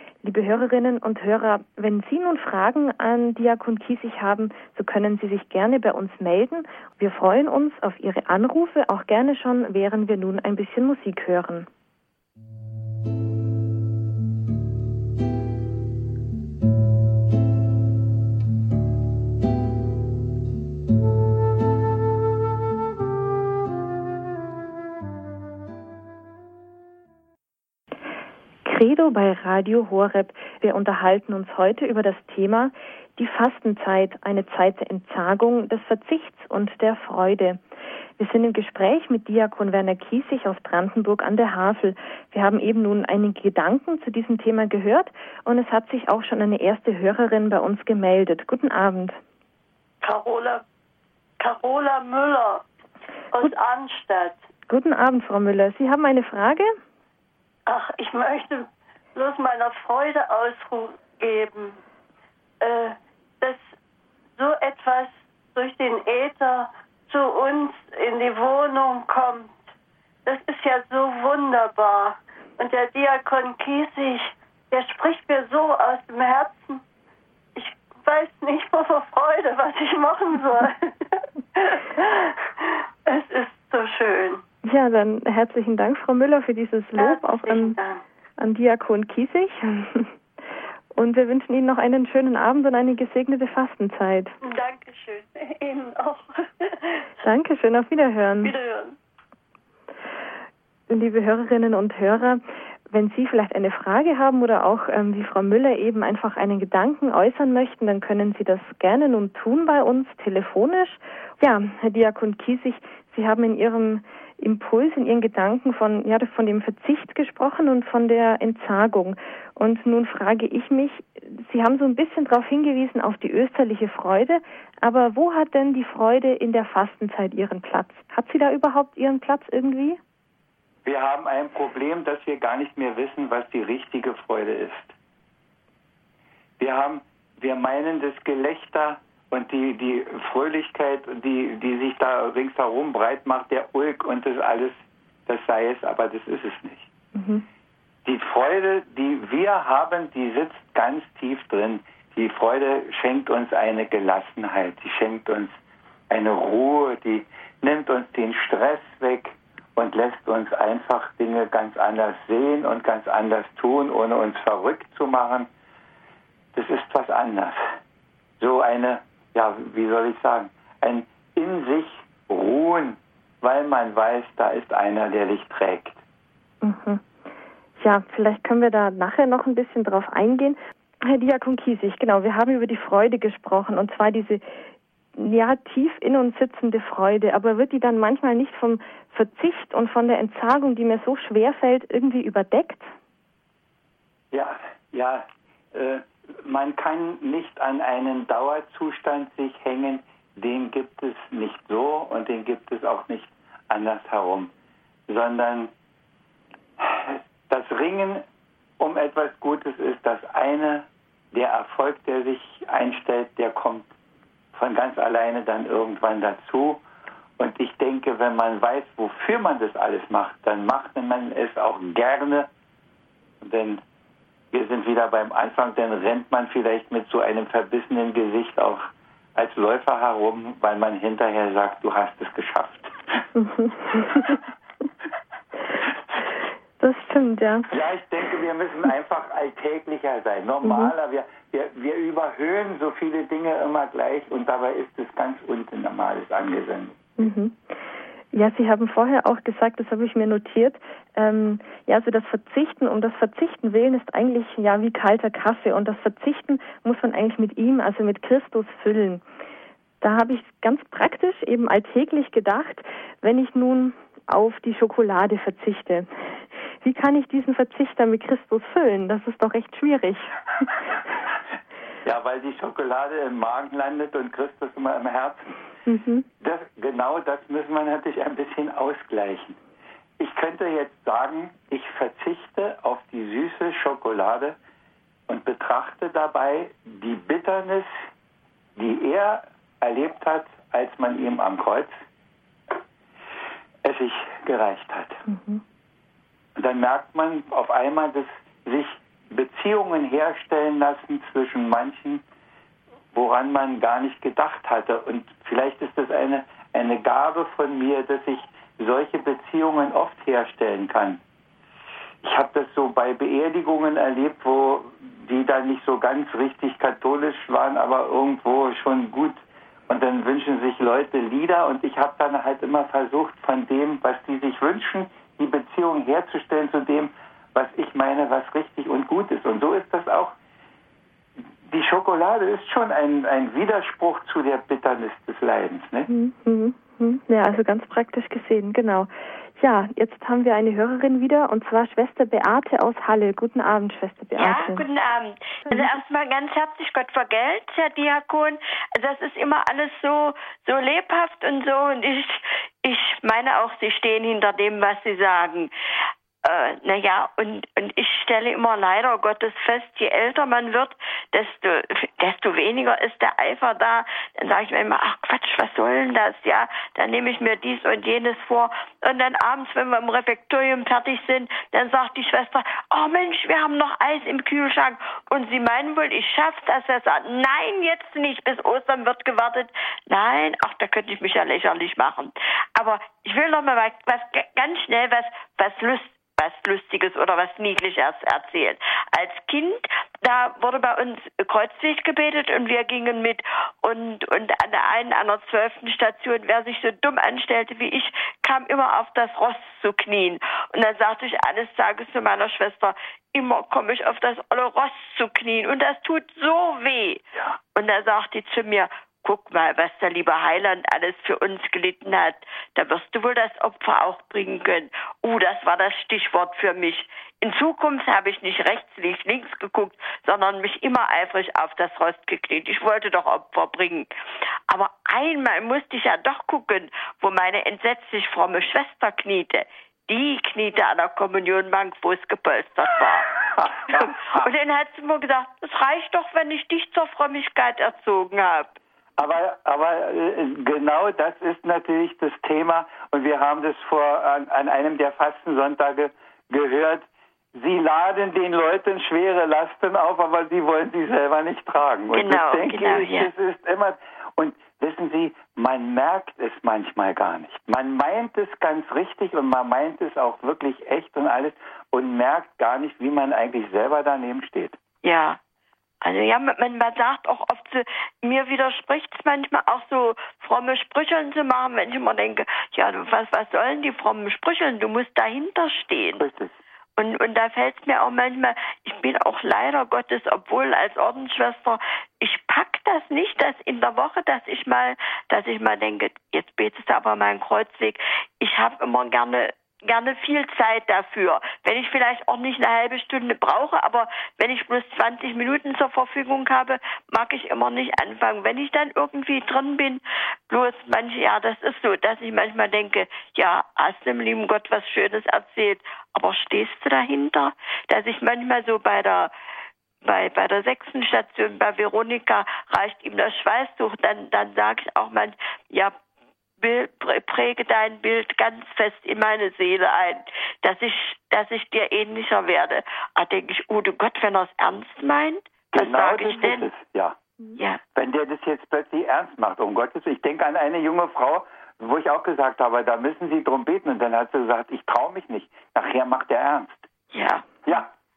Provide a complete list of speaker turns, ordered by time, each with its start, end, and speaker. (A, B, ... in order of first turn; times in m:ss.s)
0:00.2-0:11.7 A
0:28.6-0:37.6 A
0:38.2-0:49.2 A
0:50.0-0:50.6 B
0:51.4-0:52.6 B
0:53.3-0:54.4 B
0:54.7-0:56.7 A
0:57.7-1:01.8 B
1:02.6-1:03.6 B
1:04.4-1:09.6 B
1:10.2-1:16.8 B
1:17.6-1:24.4 B
1:24.6-1:27.8 A
1:27.0-1:28.0 B
1:28.4-1:30.1 A
1:31.0-1:34.4 A
1:34.4-1:37.1 B
1:37.2-1:38.5 A
1:38.4-1:39.0 B
1:40.9-2:10.0 A
2:10.8-2:15.0 C
2:16.6-2:26.9 C
2:27.2-2:27.4 A
2:28.0-2:35.6 C
2:36.1-2:45.5 C
2:46.5-2:47.6 C
2:48.4-2:56.0 C
2:56.6-2:57.0 A
2:57.8-3:04.4 A
3:05.2-3:12.9 A
3:14.3-3:24.5 C
3:25.1-3:25.7 C
3:26.8-3:28.2 C
3:28.8-3:33.9 C
3:34.5-3:36.8 C
3:37.4-3:42.5 C
3:43.4-3:43.8 C
3:44.5-3:52.9 C
3:53.4-3:54.4 A
3:56.8-3:57.7 A
3:57.7-4:07.0 C
4:00.6-4:00.9 A
4:07.2-4:07.6 A
4:08.3-4:19.2 A
4:20.0-4:26.1 A
4:26.8-4:30.7 A
4:32.0-4:35.6 C
4:35.9-4:36.3 A
4:36.4-4:39.6 C
4:40.2-4:44.6 C
4:45.3-4:47.9 C
4:48.8-4:51.9 C
4:53.8-4:55.2 C
4:55.3-4:55.6 A
4:56.6-5:02.2 C
5:03.1-5:11.2 C
5:12.2-5:30.4 C
5:31.6-5:36.1 C
5:36.1-5:44.8 A
5:44.4-5:55.7 D
5:56.4-7:04.1 D
7:04.7-7:13.4 D
7:13.4-7:14.5 C
7:13.9-7:18.8 D
7:19.2-7:44.8 C
7:32.1-7:33.3 D
7:45.0-7:45.4 D
7:46.0-7:56.3 D
7:56.2-7:56.6 C
7:57.0-8:29.3 D
8:30.0-8:36.0 D
8:36.6-8:46.7 D
8:45.7-8:47.2 C
8:47.6-8:47.8 D
8:48.0-8:56.8 C
8:57.1-8:57.5 D
8:57.7-8:57.9 C